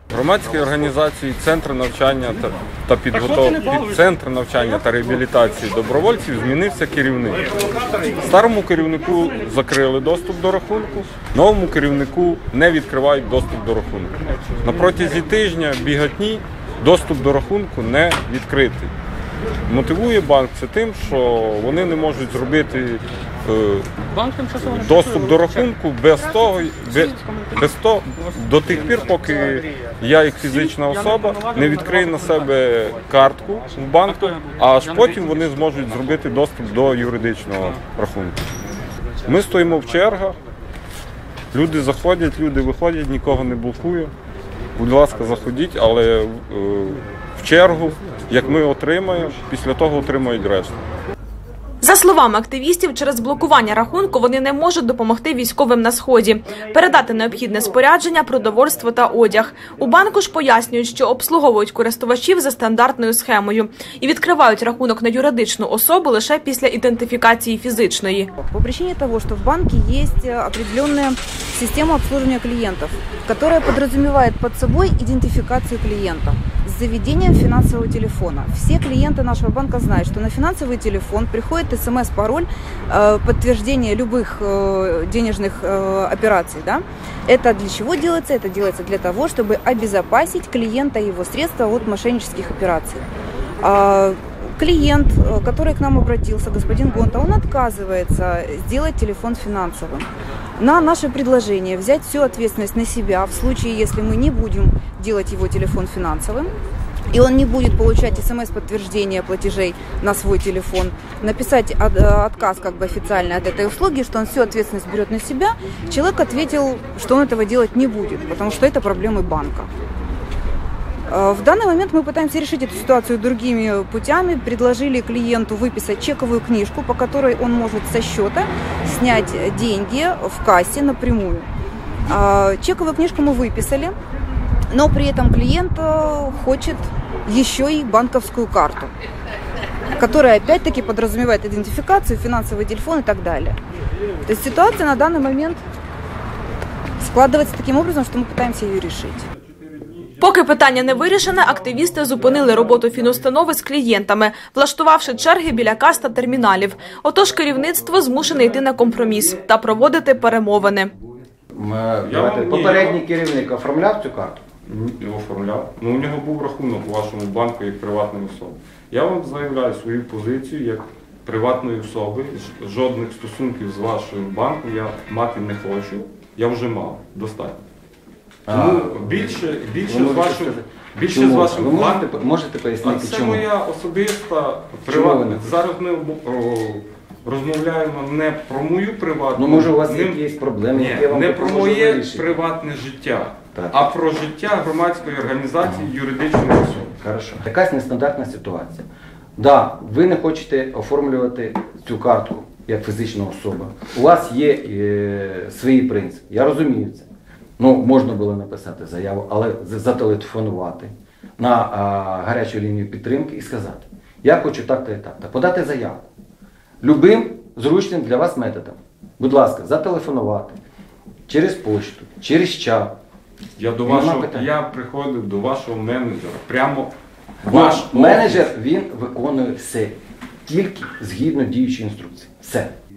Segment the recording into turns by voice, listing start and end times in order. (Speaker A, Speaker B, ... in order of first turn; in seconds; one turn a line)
Speaker A: 0.1-7.5
Speaker A: 8.2-18.9
Speaker A: 19.7-23.9
Speaker A: 24.6-38.4
Speaker A: 39.2-40.4
Speaker A: 41.5-44.1
Speaker A: 44.8-50.8
Speaker B: 51.8-68.3
Speaker C: 68.4-93.1
Speaker C: 93.6-106.5
Speaker C: 107.1-119.7
Speaker C: 121.1-131.5
Speaker C: 132.1-133.9
Speaker C: 134.7-138.9
Speaker C: 139.9-143.6
Speaker C: 144.3-145.6
Speaker C: 147.0-149.3
Speaker B: 150.2-160.9
Speaker D: 161.5-164.4
Speaker A: 162.0-163.0
Speaker A: 164.7-177.6
Speaker D: 178.5-183.5
Speaker A: 178.5-182.1
Speaker A: 182.8-190.2
Speaker D: 184.9-185.5
Speaker D: 189.4-192.3
Speaker A: 190.7-196.9
Speaker D: 193.6-193.8
Speaker D: 195.6-195.9
Speaker D: 197.0-198.8
Speaker D: 199.4-207.1
Speaker D: 207.6-216.1
Speaker D: 216.8-220.6
Speaker D: 221.3-222.9
Speaker A: 223.6-228.5
Speaker D: 223.8-224.5
Speaker D: 227.4-232.7